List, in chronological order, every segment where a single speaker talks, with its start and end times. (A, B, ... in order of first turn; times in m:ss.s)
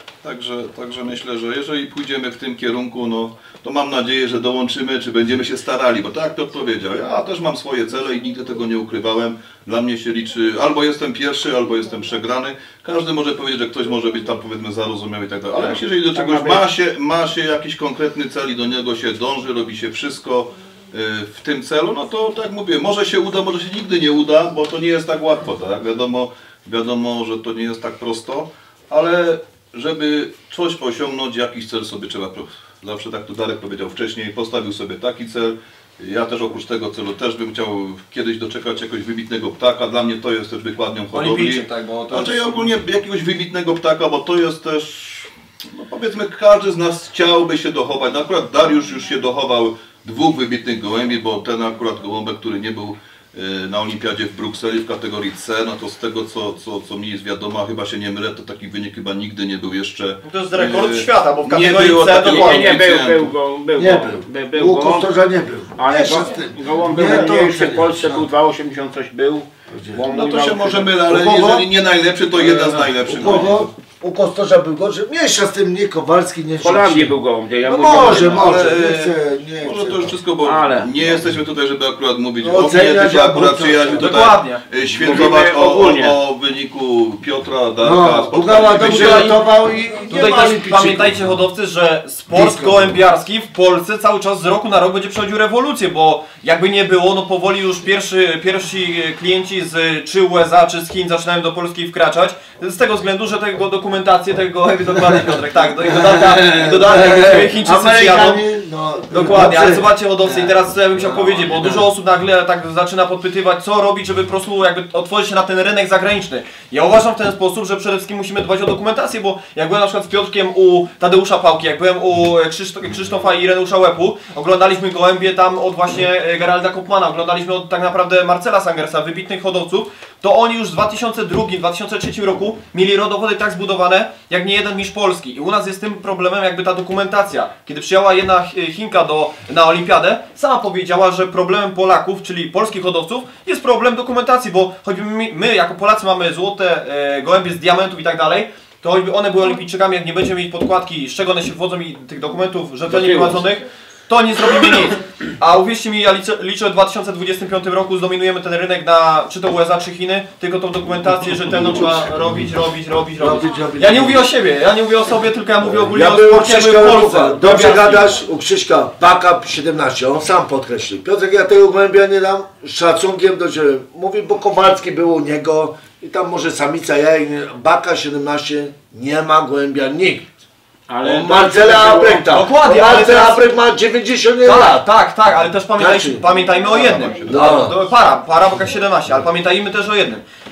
0:00.2-1:03.3 A
0:15.6-0:16.6 B
0:41.1-0:42.7 C
1:00.2-1:02.8 C
1:02.1-1:05.1 B
1:03.8-1:08.2 D
1:05.8-1:11.0 B
1:09.7-1:10.0 D
1:10.1-1:13.7 A
1:11.0-1:11.7 D
1:12.4-1:20.2 D
1:16.6-1:18.6 B
1:17.9-1:29.4 A
1:20.4-1:20.9 B
1:22.4-1:24.1 D
1:24.0-1:24.6 C
1:25.0-1:26.2 B
1:27.8-1:31.2 D
1:28.8-1:29.4 C
1:30.1-1:48.4 C
1:32.3-1:33.0 D
1:45.8-1:51.9 D
1:49.1-2:48.1 C
2:32.9-2:33.4 B
2:43.2-2:44.2 D
2:45.6-3:00.3 D
3:00.9-3:02.4 B
3:01.0-3:04.9 D
3:02.3-3:03.4 C
3:04.4-3:10.2 C
3:05.8-3:06.2 D
3:06.7-3:07.6 A
3:06.8-3:07.8 D